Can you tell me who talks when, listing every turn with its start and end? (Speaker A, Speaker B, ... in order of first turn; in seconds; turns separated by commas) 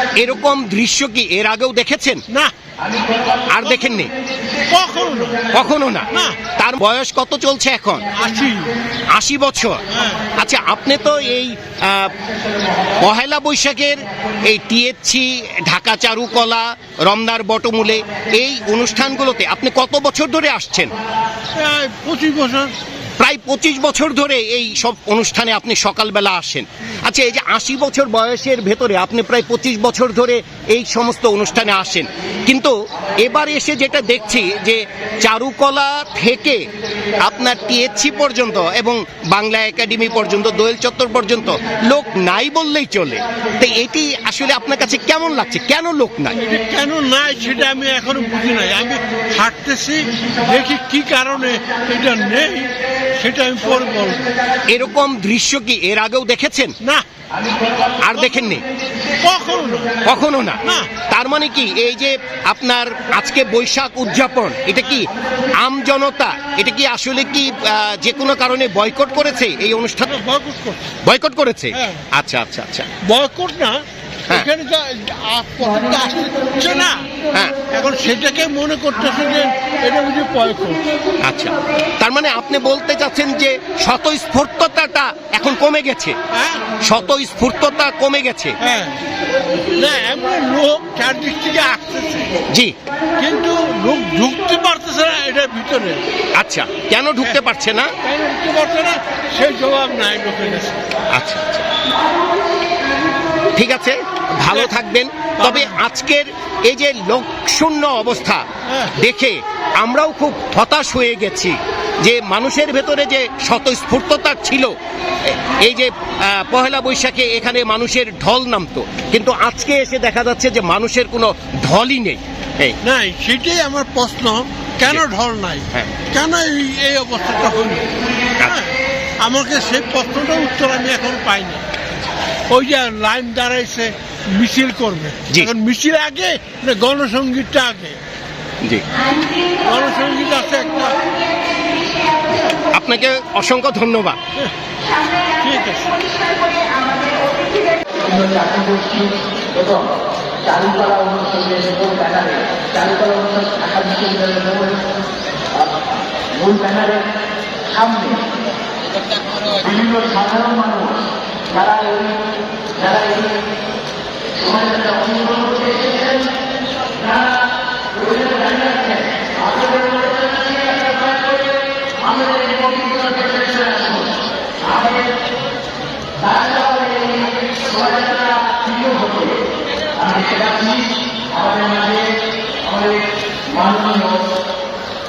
Speaker A: 0.1-2.2, Speaker A: 3.5-4.1, Speaker B: 4.7-5.5, Speaker A: 5.5-8.0, Speaker B: 6.1-6.4, Speaker B: 8.2-8.7, Speaker A: 9.1-9.8, Speaker B: 9.9-10.2, Speaker A: 10.3-12.1, Speaker A: 13.0-20.9, Speaker B: 21.5-22.7, Speaker A: 23.2-36.6, Speaker A: 37.2-46.4, Speaker B: 46.4-54.2, Speaker A: 54.7-56.7, Speaker A: 58.0-58.6, Speaker B: 58.2-58.5, Speaker B: 59.2-60.0, Speaker A: 60.0-70.2, Speaker B: 60.6-60.9, Speaker B: 70.0-70.9, Speaker A: 71.0-72.9, Speaker B: 71.7-72.0, Speaker B: 73.0-77.1, Speaker B: 77.7-80.9, Speaker A: 81.2-86.2, Speaker B: 86.3-86.6, Speaker A: 86.8-88.5, Speaker B: 88.6-89.0, Speaker B: 89.8-92.3, Speaker B: 93.2-96.0, Speaker A: 96.3-97.9, Speaker B: 98.0-100.9, Speaker A: 101.1-101.7, Speaker A: 103.5-108.4, Speaker B: 105.4-105.8, Speaker B: 108.7-108.9, Speaker A: 109.0-122.8, Speaker B: 122.8-127.8, Speaker B: 128.4-131.6, Speaker B: 132.5-138.0, Speaker B: 139.6-141.0, Speaker A: 142.7-144.2, Speaker B: 145.3-146.1, Speaker C: 148.1-149.1, Speaker C: 150.5-154.7, Speaker C: 156.4-157.0, Speaker C: 157.8-158.2, Speaker C: 159.7-160.9, Speaker C: 161.6-162.1, Speaker C: 178.5-179.2, Speaker C: 180.1-180.8, Speaker C: 181.5-182.0, Speaker C: 183.6-184.2